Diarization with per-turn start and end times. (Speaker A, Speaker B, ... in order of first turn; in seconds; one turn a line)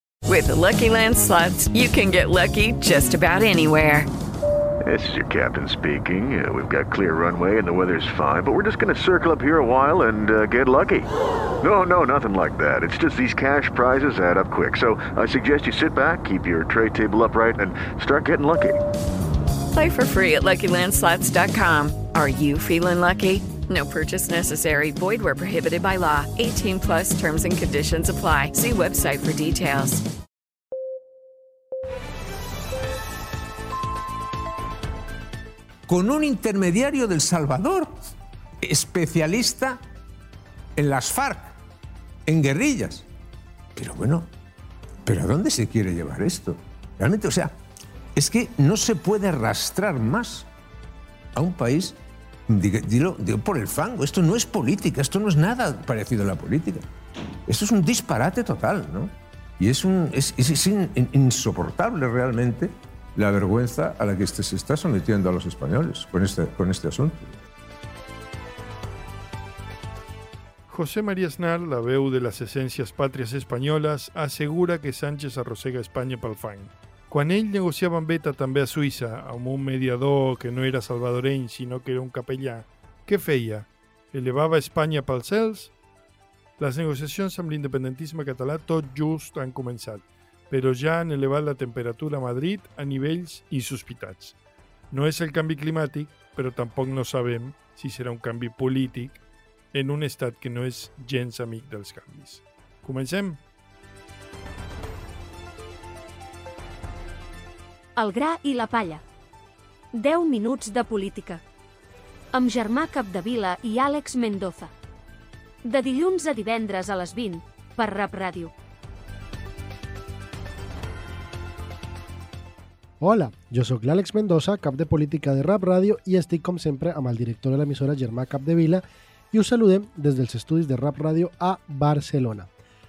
Speaker A: 0.2-4.1
Speaker B: 4.8-18.8
Speaker A: 19.7-30.0
Speaker C: 35.9-37.9
Speaker C: 38.6-39.8
Speaker C: 40.8-41.6
Speaker C: 42.3-43.0
Speaker C: 43.8-44.3
Speaker C: 45.0-47.5
Speaker C: 48.2-50.5
Speaker C: 51.3-52.0
Speaker C: 52.5-56.8
Speaker C: 57.5-67.3
Speaker D: 70.7-85.7
Speaker D: 86.6-94.3
Speaker D: 94.9-99.2
Speaker D: 99.7-103.4
Speaker E: 108.0-109.0
Speaker E: 109.9-111.4
Speaker E: 112.3-114.7
Speaker E: 115.7-118.5
Speaker F: 123.0-132.5